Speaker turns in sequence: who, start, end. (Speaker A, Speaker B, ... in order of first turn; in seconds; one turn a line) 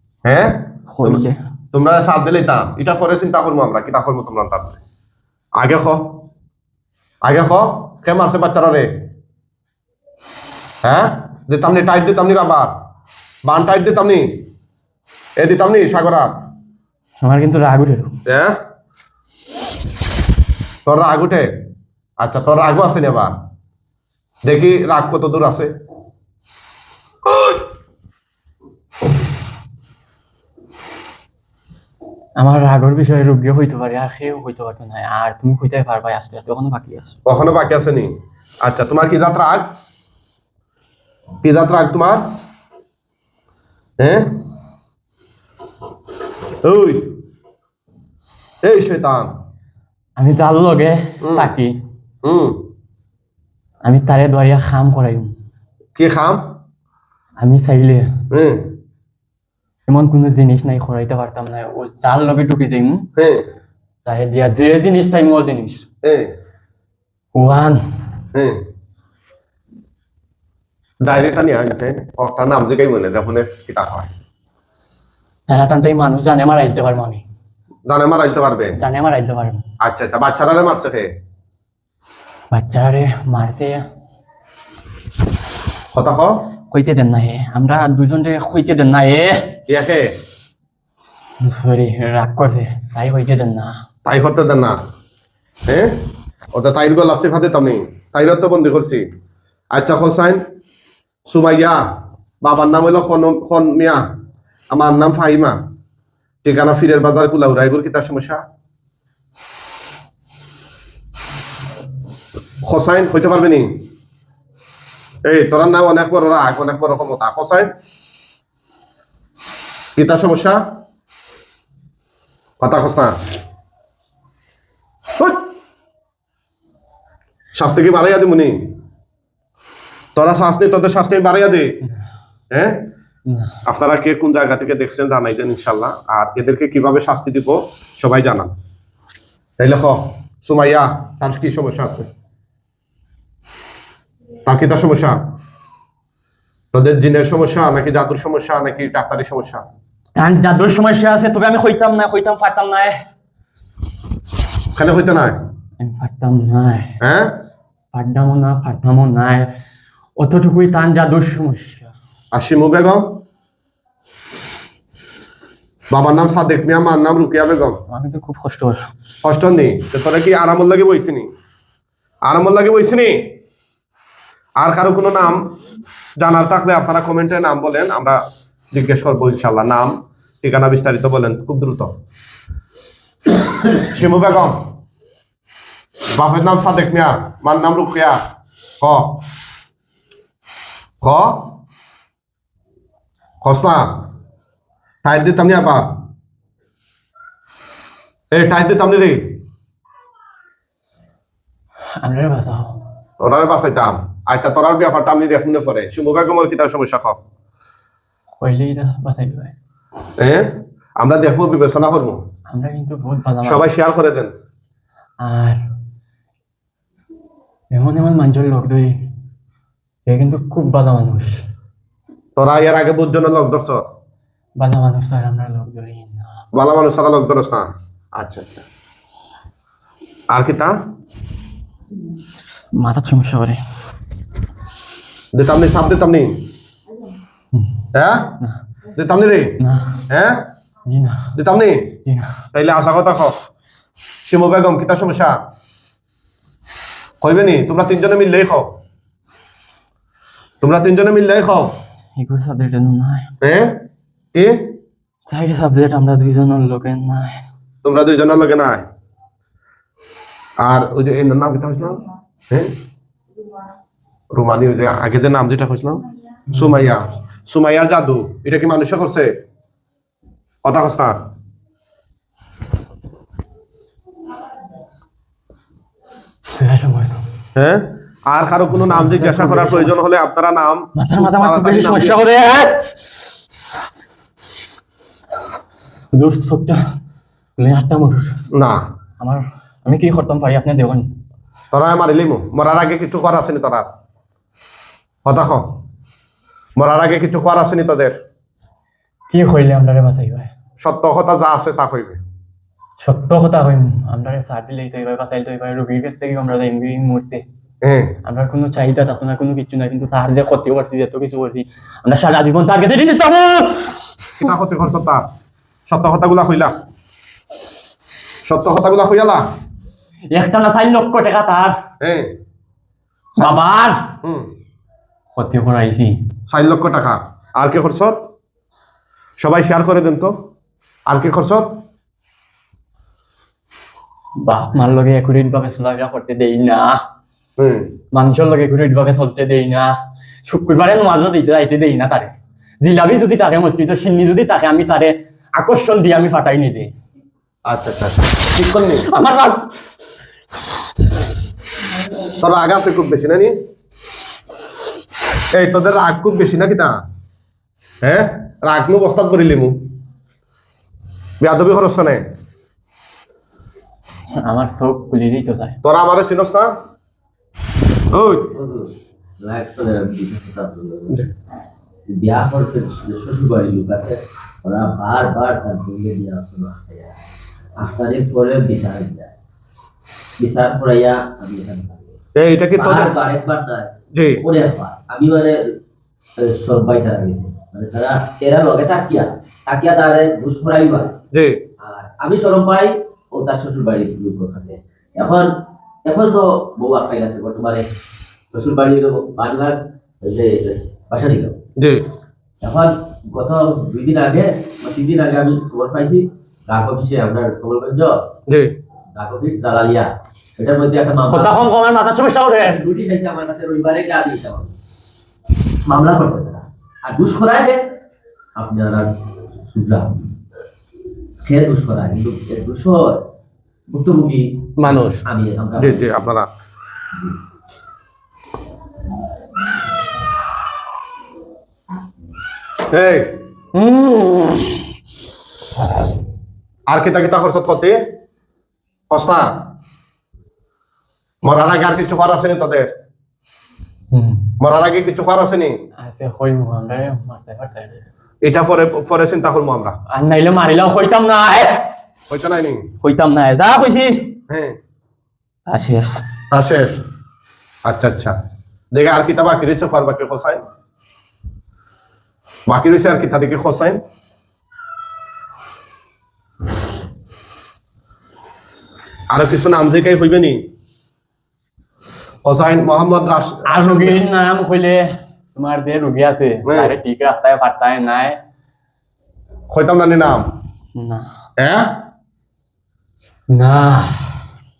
Speaker A: 0.2-4.8
Speaker B: 0.9-1.4
Speaker A: 5.6-6.2
Speaker A: 7.2-8.9
Speaker A: 10.8-12.7
Speaker A: 13.4-14.3
Speaker A: 15.4-16.4
Speaker B: 17.2-18.1
Speaker A: 18.3-18.6
Speaker A: 20.9-21.5
Speaker A: 22.2-23.3
Speaker A: 24.4-25.7
Speaker B: 32.4-37.2
Speaker A: 37.2-39.7
Speaker A: 41.4-42.3
Speaker A: 44.0-44.4
Speaker A: 46.6-47.2
Speaker A: 48.6-49.3
Speaker B: 50.2-51.8
Speaker A: 51.2-51.5
Speaker A: 52.2-52.6
Speaker B: 53.9-55.3
Speaker A: 56.0-56.4
Speaker B: 57.4-58.1
Speaker A: 58.3-58.7
Speaker B: 59.9-63.1
Speaker A: 63.2-63.5
Speaker B: 64.0-65.9
Speaker A: 66.0-66.3
Speaker B: 67.3-67.8
Speaker A: 68.3-68.6
Speaker A: 71.0-74.1
Speaker B: 75.5-77.2
Speaker A: 77.9-78.8
Speaker B: 78.8-79.6
Speaker A: 79.8-81.1
Speaker B: 82.5-83.9
Speaker A: 85.9-86.4
Speaker B: 86.7-89.6
Speaker A: 89.7-90.1
Speaker B: 91.4-93.8
Speaker A: 94.0-94.8
Speaker A: 95.7-96.0
Speaker A: 96.5-99.1
Speaker A: 99.7-100.4
Speaker A: 101.3-101.8
Speaker A: 102.4-104.0
Speaker A: 104.7-105.6
Speaker A: 106.4-108.4
Speaker A: 112.6-113.9
Speaker A: 115.3-117.7
Speaker A: 120.0-120.6
Speaker A: 122.6-123.2
Speaker A: 125.2-125.5
Speaker A: 127.5-128.7
Speaker A: 130.2-131.8
Speaker A: 132.5-132.9
Speaker B: 133.3-133.6
Speaker A: 133.7-138.5
Speaker A: 139.6-142.1
Speaker A: 144.5-145.2
Speaker A: 146.7-149.7
Speaker B: 150.2-153.0
Speaker A: 154.7-155.4
Speaker B: 155.8-156.9
Speaker A: 157.0-157.3
Speaker B: 157.9-159.5
Speaker B: 160.2-161.9
Speaker A: 162.3-163.2
Speaker A: 165.9-167.8
Speaker B: 167.9-168.8
Speaker A: 169.2-171.3
Speaker A: 172.2-173.3
Speaker A: 174.6-175.5
Speaker A: 176.2-181.9
Speaker A: 183.7-184.6
Speaker A: 186.1-188.2
Speaker A: 188.8-189.2
Speaker A: 191.0-191.5
Speaker A: 193.4-194.1
Speaker A: 195.0-196.0
Speaker A: 198.3-199.4
Speaker B: 202.0-202.8
Speaker A: 203.2-207.2
Speaker B: 208.4-209.5
Speaker A: 210.2-212.2
Speaker B: 212.5-213.7
Speaker A: 213.4-214.3
Speaker B: 215.2-215.6
Speaker B: 217.7-218.9
Speaker B: 220.1-221.4
Speaker A: 222.4-223.8
Speaker B: 224.6-226.3
Speaker A: 226.5-228.7
Speaker A: 230.3-230.8
Speaker B: 232.8-233.6
Speaker A: 235.3-236.4
Speaker A: 237.9-238.3
Speaker A: 238.9-239.6
Speaker B: 239.6-240.0
Speaker A: 240.1-240.5
Speaker B: 240.9-241.3
Speaker A: 241.3-241.9
Speaker B: 242.1-242.3
Speaker A: 242.5-243.4
Speaker A: 244.2-245.4
Speaker A: 247.2-248.7
Speaker A: 250.6-251.7
Speaker B: 252.2-253.3
Speaker A: 253.4-253.8
Speaker A: 254.3-254.7
Speaker B: 255.3-257.4
Speaker A: 257.8-258.9
Speaker A: 260.6-262.7
Speaker A: 264.3-269.3
Speaker A: 270.6-271.2
Speaker B: 276.5-277.2
Speaker A: 277.6-282.2
Speaker B: 278.7-279.9
Speaker B: 280.9-282.9
Speaker B: 286.1-286.8
Speaker B: 287.6-288.3
Speaker A: 288.5-288.9
Speaker B: 289.2-291.1
Speaker A: 291.7-293.9
Speaker A: 295.2-295.7
Speaker A: 296.8-298.2
Speaker B: 299.3-300.5
Speaker A: 300.8-302.2
Speaker B: 303.0-307.4
Speaker A: 307.8-308.2
Speaker B: 308.2-314.0
Speaker A: 314.4-315.3
Speaker A: 315.9-316.7
Speaker A: 318.4-319.5
Speaker B: 320.3-321.8
Speaker A: 322.0-322.3
Speaker A: 323.3-323.6
Speaker B: 323.4-324.1
Speaker A: 324.2-324.5
Speaker B: 325.4-326.2
Speaker A: 326.5-328.2
Speaker A: 329.4-330.4
Speaker A: 331.1-331.8
Speaker B: 334.4-337.0
Speaker A: 337.6-337.9
Speaker B: 338.1-339.9
Speaker B: 340.5-346.9
Speaker A: 347.7-349.1
Speaker B: 349.1-349.7
Speaker A: 352.4-353.6
Speaker A: 355.5-356.9
Speaker A: 358.0-359.9
Speaker A: 361.4-362.3
Speaker B: 364.4-365.8
Speaker A: 365.8-366.7
Speaker A: 368.1-368.5
Speaker C: 368.5-371.2
Speaker C: 372.1-377.2
Speaker C: 377.8-379.3
Speaker C: 380.4-382.2
Speaker A: 382.4-383.2
Speaker C: 382.8-385.7
Speaker A: 384.1-384.5
Speaker C: 386.4-391.1
Speaker A: 391.3-391.6
Speaker C: 391.8-395.5
Speaker C: 396.1-397.9
Speaker C: 398.5-401.6
Speaker A: 401.8-402.1
Speaker C: 402.6-408.2
Speaker A: 408.5-408.8
Speaker C: 409.1-411.6
Speaker B: 411.3-412.9
Speaker C: 412.6-414.7
Speaker C: 415.8-417.8
Speaker C: 418.6-420.3
Speaker C: 421.4-423.2
Speaker C: 423.9-426.1
Speaker A: 424.8-425.2
Speaker A: 425.8-426.5
Speaker A: 432.9-433.4
Speaker B: 433.7-434.8
Speaker A: 436.9-438.0
Speaker A: 439.1-439.6
Speaker A: 441.4-442.9
Speaker B: 444.1-444.5
Speaker A: 444.6-445.8
Speaker B: 446.0-448.0
Speaker A: 448.4-450.0
Speaker B: 450.1-451.9
Speaker A: 452.3-452.9
Speaker B: 453.0-454.4
Speaker A: 454.5-454.8
Speaker B: 455.7-456.2
Speaker A: 456.5-457.0
Speaker A: 457.9-458.4
Speaker A: 458.9-460.6
Speaker A: 462.7-464.0
Speaker A: 469.3-470.7
Speaker A: 472.4-474.2
Speaker B: 473.6-478.4
Speaker A: 476.7-476.9
Speaker A: 479.7-480.5
Speaker B: 481.0-481.3
Speaker A: 481.6-482.0
Speaker B: 483.5-484.4